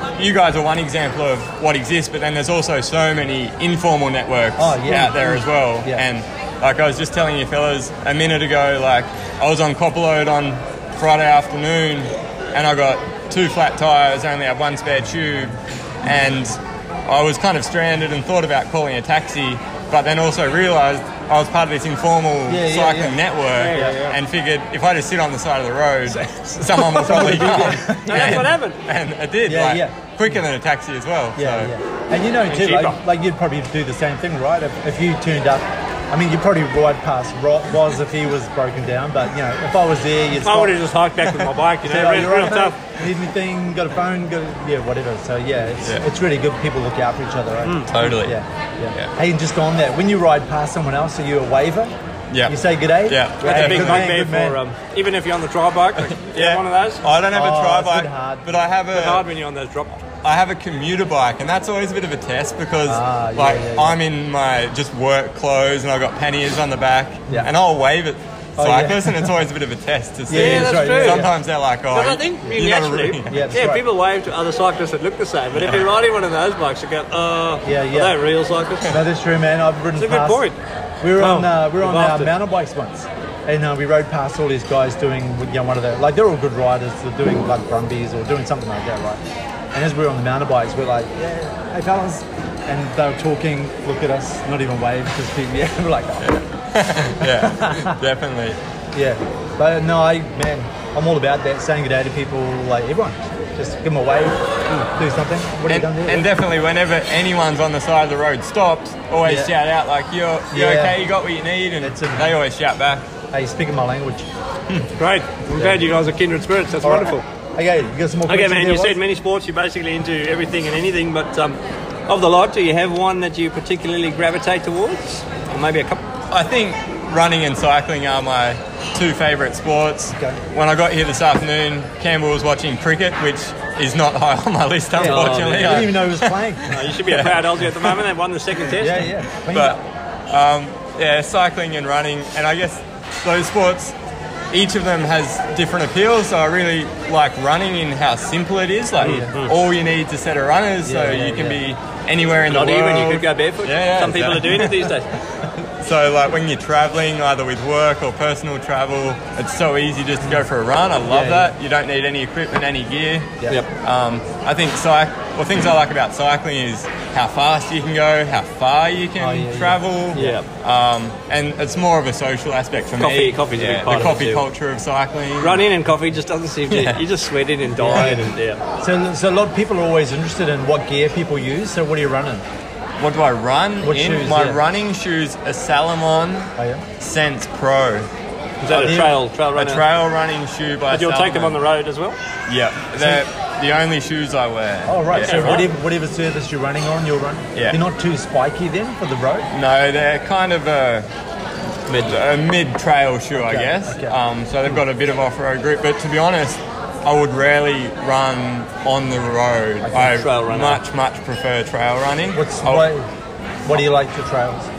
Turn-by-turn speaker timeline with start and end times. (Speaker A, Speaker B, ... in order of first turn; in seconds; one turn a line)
Speaker A: 0.1-31.7
Speaker B: 4.6-6.0
Speaker B: 22.5-24.0
Speaker C: 23.5-24.2
Speaker B: 26.1-28.5
Speaker C: 26.7-28.8
Speaker B: 29.4-30.0
Speaker B: 31.4-40.9
Speaker C: 32.5-33.0
Speaker C: 40.4-42.8
Speaker B: 41.8-51.9
Speaker C: 47.6-48.1
Speaker A: 47.9-48.4
Speaker A: 52.3-54.1
Speaker B: 52.4-54.6
Speaker C: 53.4-57.0
Speaker A: 56.2-59.2
Speaker B: 57.3-58.6
Speaker C: 58.9-60.0
Speaker A: 60.2-73.5
Speaker B: 62.9-64.0
Speaker B: 68.6-69.4
Speaker B: 70.3-71.3
Speaker C: 70.3-71.3
Speaker C: 71.9-78.9
Speaker B: 73.3-73.9
Speaker A: 75.6-75.9
Speaker B: 77.6-78.2
Speaker B: 78.9-80.5
Speaker C: 79.9-80.6
Speaker B: 81.0-89.2
Speaker C: 81.2-82.3
Speaker B: 89.7-96.3
Speaker A: 96.2-98.6
Speaker B: 97.2-98.0
Speaker B: 98.9-106.3
Speaker A: 105.7-113.1
Speaker B: 109.2-109.5
Speaker B: 110.5-111.0
Speaker B: 111.8-112.4
Speaker B: 113.3-114.3
Speaker C: 115.0-117.2
Speaker B: 115.5-115.9
Speaker B: 116.8-119.0
Speaker C: 118.3-126.0
Speaker A: 126.3-138.0
Speaker B: 130.1-130.4
Speaker B: 134.9-136.8
Speaker C: 135.0-135.9
Speaker C: 136.7-139.1
Speaker B: 138.8-139.8
Speaker A: 139.5-143.9
Speaker A: 144.5-154.9
Speaker C: 149.0-149.5
Speaker B: 149.0-149.3
Speaker B: 150.8-151.6
Speaker C: 152.4-155.1
Speaker A: 155.8-175.6
Speaker B: 161.1-161.6
Speaker B: 169.2-170.4
Speaker C: 170.2-170.4
Speaker C: 173.0-174.5
Speaker C: 175.4-178.6
Speaker A: 176.7-177.0
Speaker B: 177.8-182.4
Speaker A: 183.0-188.1
Speaker B: 183.8-184.6
Speaker B: 186.6-186.8
Speaker C: 188.6-189.8
Speaker B: 188.7-189.2
Speaker A: 189.6-191.6
Speaker C: 190.9-192.2
Speaker A: 192.5-195.7
Speaker B: 192.9-193.2
Speaker B: 194.8-199.5
Speaker C: 195.2-195.7
Speaker A: 197.6-197.8
Speaker A: 199.5-201.1
Speaker A: 201.9-212.9
Speaker B: 203.3-204.2
Speaker B: 209.8-210.2
Speaker C: 210.1-210.8
Speaker B: 212.3-213.1
Speaker B: 213.6-214.7